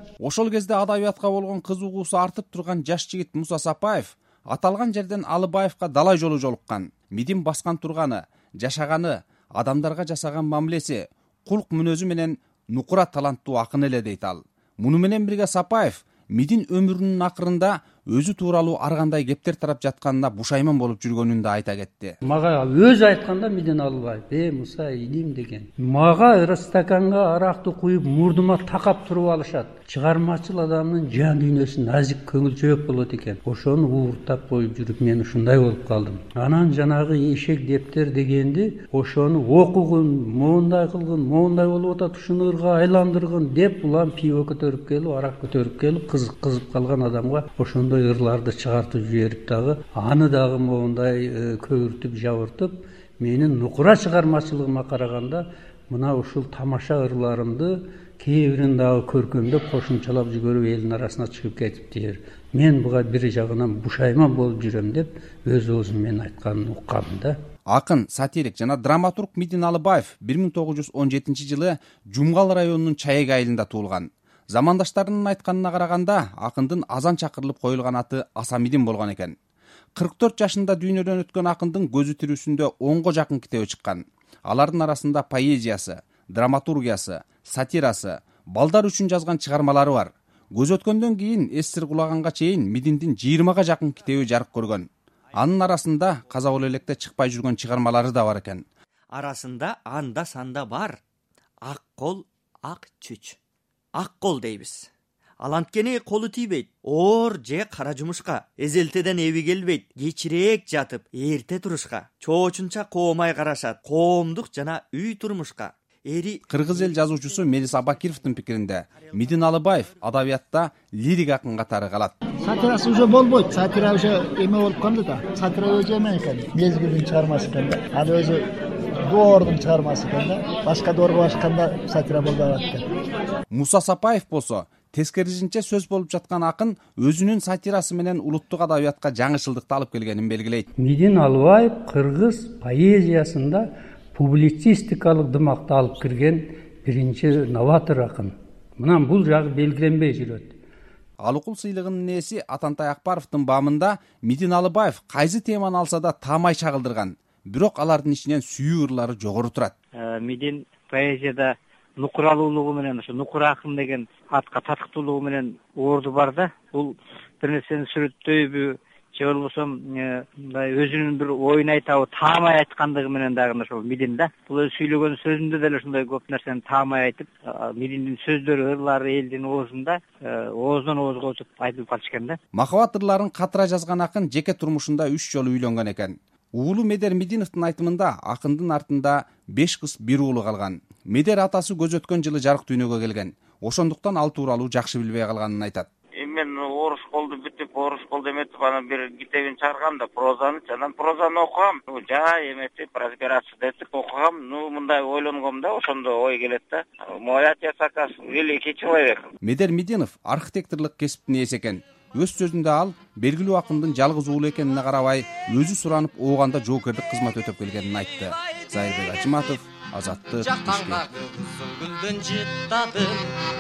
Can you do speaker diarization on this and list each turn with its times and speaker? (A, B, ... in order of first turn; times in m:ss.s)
0:00.2-0:22.2 A
0:22.2-1:07.4 B
1:07.7-1:19.4 A
1:20.0-1:38.6 A
1:39.2-1:41.0 C
1:41.6-1:43.4 C
1:43.9-1:44.9 C
1:45.4-1:56.4 C
1:56.5-2:02.1 A
2:02.4-2:08.4 D
2:09.1-2:12.8 D
2:13.5-2:20.7 A
2:20.8-2:30.6 B
2:31.2-2:39.7 A
2:40.0-3:02.4 E
3:02.6-3:15.9 A
3:16.2-3:29.2 F
3:29.4-3:41.0 A
3:40.4-3:43.3 G